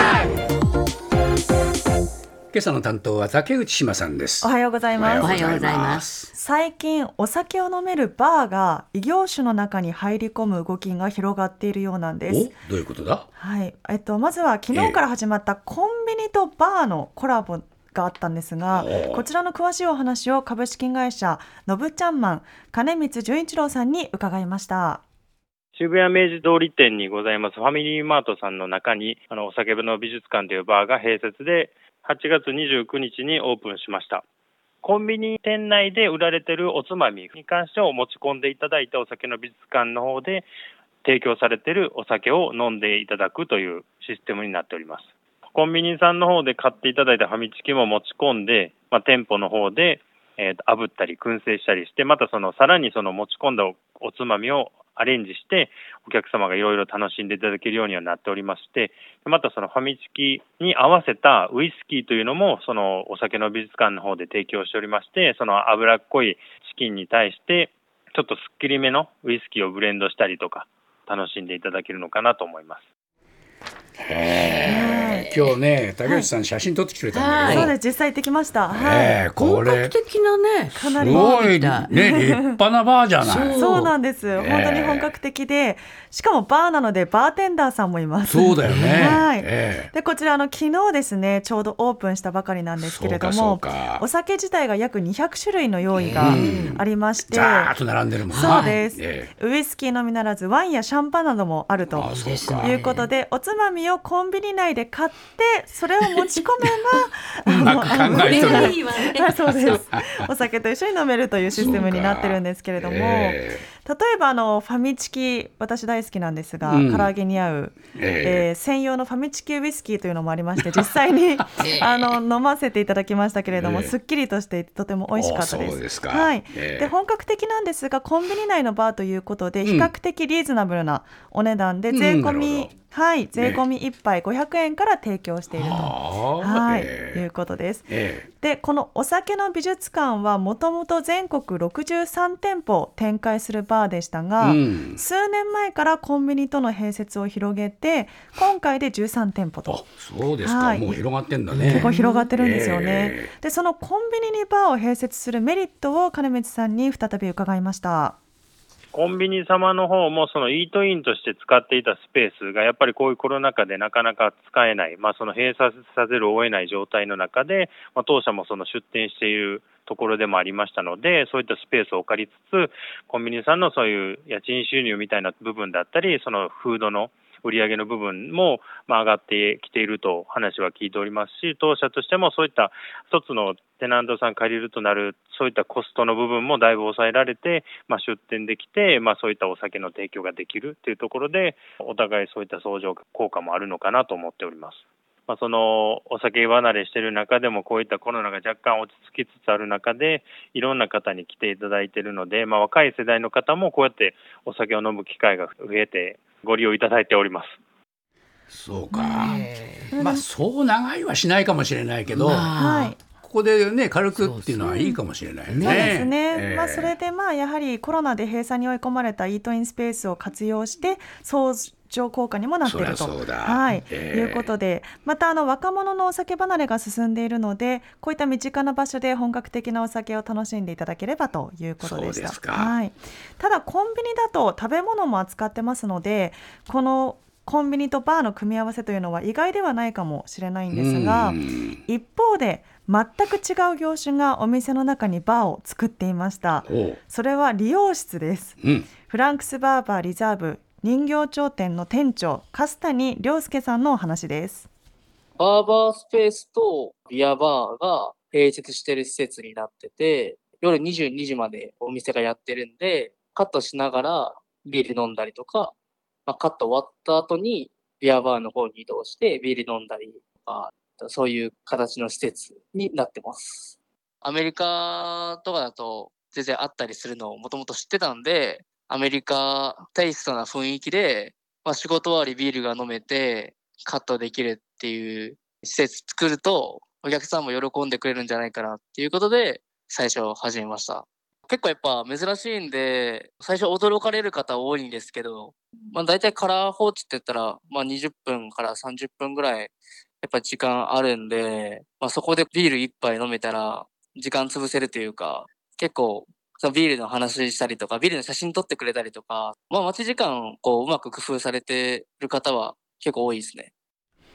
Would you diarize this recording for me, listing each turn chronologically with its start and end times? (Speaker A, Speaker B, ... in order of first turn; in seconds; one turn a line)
Speaker A: 2.5-6.3
Speaker B: 4.4-5.4
Speaker C: 5.2-6.0
Speaker B: 6.3-12.5
Speaker A: 12.2-13.3
Speaker B: 13.3-25.0
Speaker A: 14.7-15.0
Speaker A: 18.7-19.2
Speaker D: 25.7-34.2
Speaker D: 34.8-40.5
Speaker D: 41.0-72.8
Speaker A: 74.0-77.7
Speaker B: 74.6-75.3
Speaker B: 76.0-76.3
Speaker C: 77.1-77.7
Speaker B: 77.5-79.2
Speaker A: 78.7-80.0
Speaker C: 79.3-81.9
Speaker B: 80.7-81.4
Speaker A: 81.0-83.6
Speaker B: 81.9-82.6
Speaker C: 83.2-83.9
Speaker B: 83.5-97.8
Speaker A: 84.3-85.1
Speaker A: 88.2-89.9
Speaker C: 88.6-89.2
Speaker A: 92.8-94.0
Speaker C: 95.9-96.8
Speaker A: 96.1-99.3
Speaker B: 98.3-149.8
Speaker C: 98.3-98.8
Speaker A: 101.9-102.8
Speaker C: 102.1-103.1
Speaker A: 107.5-108.8
Speaker C: 107.9-109.8
Speaker A: 109.4-110.2
Speaker A: 111.5-113.7
Speaker A: 116.6-117.1
Speaker A: 117.9-118.5
Speaker A: 120.6-120.8
Speaker A: 121.6-121.9
Speaker A: 123.5-123.9
Speaker A: 125.1-126.9
Speaker A: 129.6-129.9
Speaker A: 131.9-132.7
Speaker A: 133.3-133.6
Speaker A: 135.5-137.2
Speaker A: 137.9-138.3
Speaker A: 144.4-145.0
Speaker A: 149.7-153.3
Speaker B: 150.4-151.0
Speaker C: 151.5-152.3
Speaker B: 151.7-158.2
Speaker D: 158.9-207.6
Speaker A: 208.5-212.5
Speaker C: 208.9-209.9
Speaker B: 209.9-210.2
Speaker C: 212.1-213.0
Speaker B: 212.5-213.0
Speaker A: 213.2-216.9
Speaker C: 214.1-214.7
Speaker B: 214.7-215.0
Speaker C: 215.5-216.0
Speaker B: 215.6-254.7
Speaker A: 222.6-224.5
Speaker A: 231.8-232.8
Speaker A: 240.7-241.8
Speaker A: 246.7-247.0
Speaker A: 248.6-248.9
Speaker E: 255.4-265.7
Speaker E: 266.3-313.7